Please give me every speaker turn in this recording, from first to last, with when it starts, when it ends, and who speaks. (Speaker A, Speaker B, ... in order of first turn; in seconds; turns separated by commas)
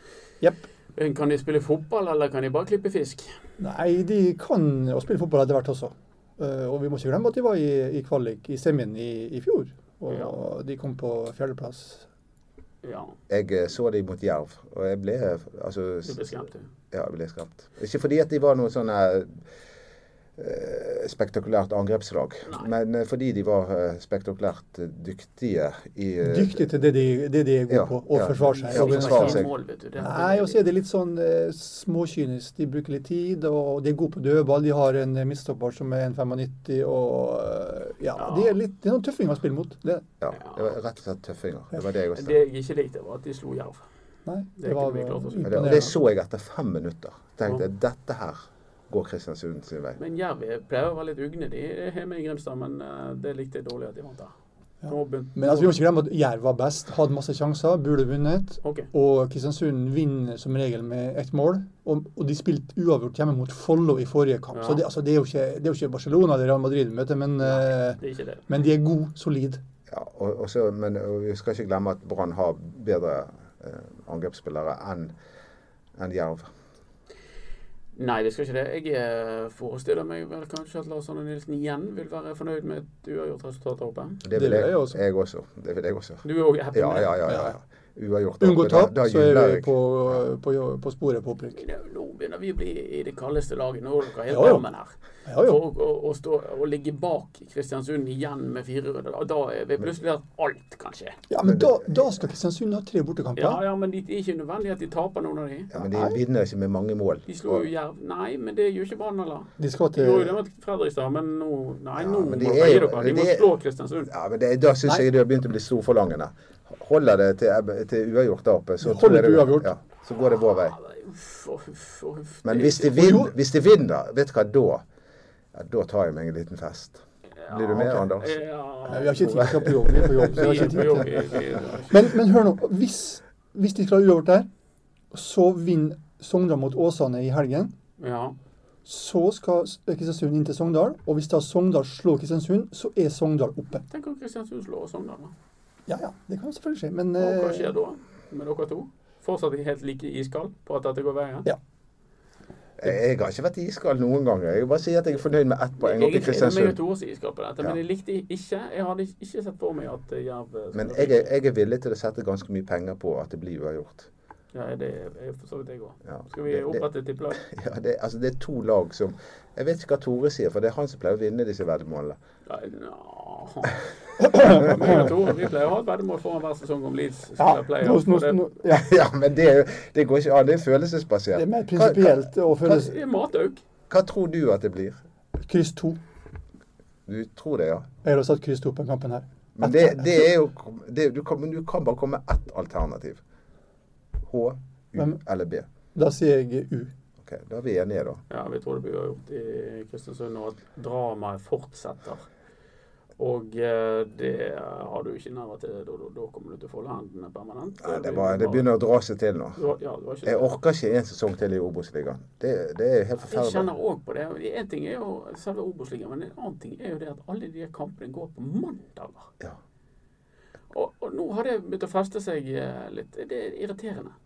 Speaker A: 0.9-3.4, Speaker B: 3.6-12.1, Speaker A: 10.1-10.3, Speaker A: 12.8-13.2, Speaker C: 13.3-16.4, Speaker A: 16.1-16.7, Speaker C: 16.9-19.4, Speaker C: 20.4-26.6, Speaker B: 26.2-29.5, Speaker C: 27.7-29.5, Speaker A: 28.6-30.6, Speaker B: 30.0-40.1, Speaker A: 38.2-38.6, Speaker C: 40.2-42.4, Speaker A: 40.3-40.7, Speaker A: 42.1-43.8, Speaker B: 44.3-45.9, Speaker A: 44.6-45.9, Speaker C: 45.4-50.0, Speaker A: 50.0-54.3, Speaker A: 54.9-55.7, Speaker B: 55.4-69.6, Speaker A: 58.6-58.9, Speaker A: 64.5-64.8, Speaker A: 67.5-68.5, Speaker C: 69.9-75.1, Speaker C: 76.0-76.5, Speaker A: 78.0-84.2, Speaker C: 84.2-89.7, Speaker B: 84.3-85.0, Speaker A: 86.2-87.1, Speaker B: 87.2-87.6, Speaker B: 88.4-91.6, Speaker A: 91.5-101.2, Speaker B: 94.3-94.7, Speaker B: 95.3-95.6, Speaker B: 101.3-103.6, Speaker C: 101.4-102.0, Speaker A: 103.4-105.7, Speaker C: 105.7-107.7, Speaker B: 105.8-106.2, Speaker A: 107.3-114.1, Speaker B: 109.6-110.4, Speaker C: 112.0-113.5, Speaker C: 114.1-120.8, Speaker B: 118.8-119.7, Speaker A: 120.2-123.1, Speaker C: 122.5-124.8, Speaker B: 122.9-123.3, Speaker C: 125.5-128.4, Speaker A: 127.4-132.0, Speaker B: 128.9-134.5, Speaker C: 129.0-130.6, Speaker B: 135.1-137.7, Speaker A: 138.0-138.4, Speaker B: 138.8-143.8, Speaker A: 143.9-145.3, Speaker B: 145.9-147.7, Speaker A: 147.2-151.5, Speaker C: 152.8-156.8, Speaker A: 155.8-161.3, Speaker C: 160.7-164.1, Speaker A: 164.5-167.4, Speaker C: 166.1-166.9, Speaker C: 167.4-172.2, Speaker A: 172.5-178.4, Speaker B: 174.2-174.7, Speaker B: 177.4-178.9, Speaker C: 178.7-182.2, Speaker B: 181.3-182.9, Speaker A: 182.6-183.6, Speaker C: 183.9-185.0, Speaker B: 185.4-186.0, Speaker C: 187.1-187.9, Speaker B: 188.0-190.3, Speaker C: 189.6-193.2, Speaker C: 194.3-195.7, Speaker B: 195.9-196.9, Speaker C: 197.2-198.2, Speaker A: 198.3-202.3, Speaker A: 203.2-208.7, Speaker C: 207.8-209.6, Speaker A: 209.6-210.5, Speaker C: 210.2-213.7, Speaker A: 213.3-219.3, Speaker A: 220.7-224.2